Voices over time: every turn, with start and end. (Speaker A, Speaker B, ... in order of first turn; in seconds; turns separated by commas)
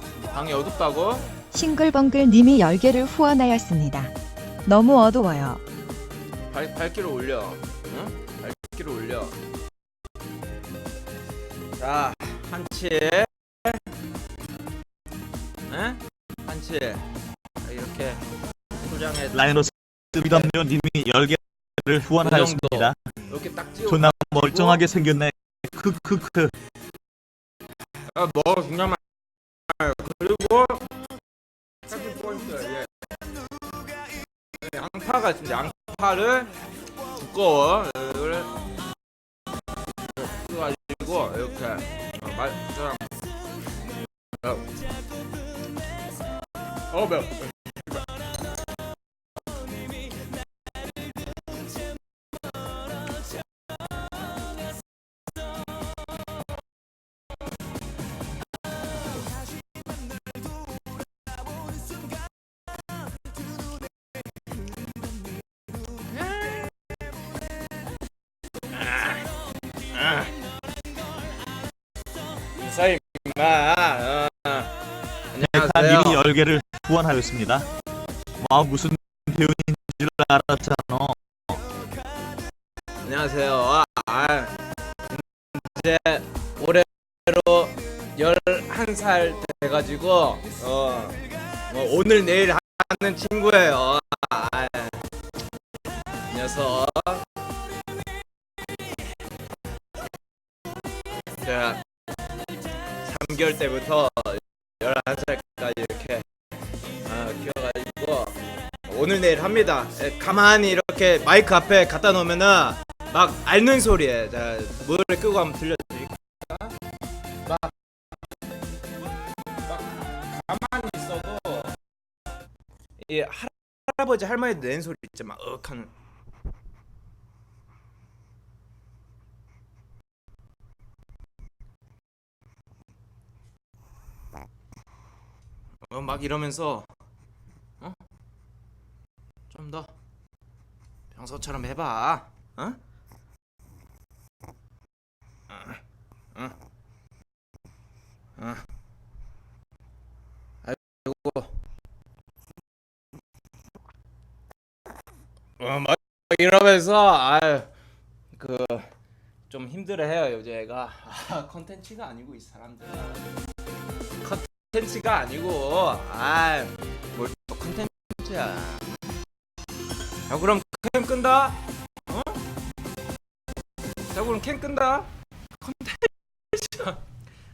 Speaker A: 0.3-1.3, Speaker B: 1.5-4.1, Speaker B: 4.7-5.6, Speaker A: 6.5-9.3, Speaker A: 11.8-13.8, Speaker A: 15.7-17.0, Speaker A: 17.6-18.2, Speaker A: 18.8-19.6, Speaker C: 19.3-23.0, Speaker A: 20.3-20.5, Speaker A: 22.2-24.8, Speaker C: 23.9-26.5, Speaker A: 28.1-29.0, Speaker A: 29.7-30.9, Speaker A: 31.9-32.9, Speaker A: 34.5-36.5, Speaker A: 37.1-38.5, Speaker A: 40.1-43.1, Speaker A: 44.4-44.7, Speaker A: 46.9-47.5, Speaker A: 68.7-69.2, Speaker A: 69.9-70.3, Speaker A: 72.5-74.7, Speaker A: 75.3-76.2, Speaker C: 75.4-77.7, Speaker C: 78.4-81.6, Speaker A: 83.0-84.6, Speaker A: 85.1-91.2, Speaker A: 91.7-95.0, Speaker A: 96.3-97.2, Speaker A: 101.4-101.8, Speaker A: 103.0-106.2, Speaker A: 107.0-116.7, Speaker A: 117.4-117.7, Speaker A: 119.6-121.8, Speaker A: 123.0-125.9, Speaker A: 135.9-136.9, Speaker A: 139.5-139.9, Speaker A: 141.1-142.8, Speaker A: 145.5-145.8, Speaker A: 148.4-148.6, Speaker A: 150.6-151.5, Speaker A: 155.6-157.7, Speaker A: 158.3-158.9, Speaker A: 159.5-163.2, Speaker A: 164.2-168.8, Speaker A: 170.3-172.4, Speaker A: 174.1-177.0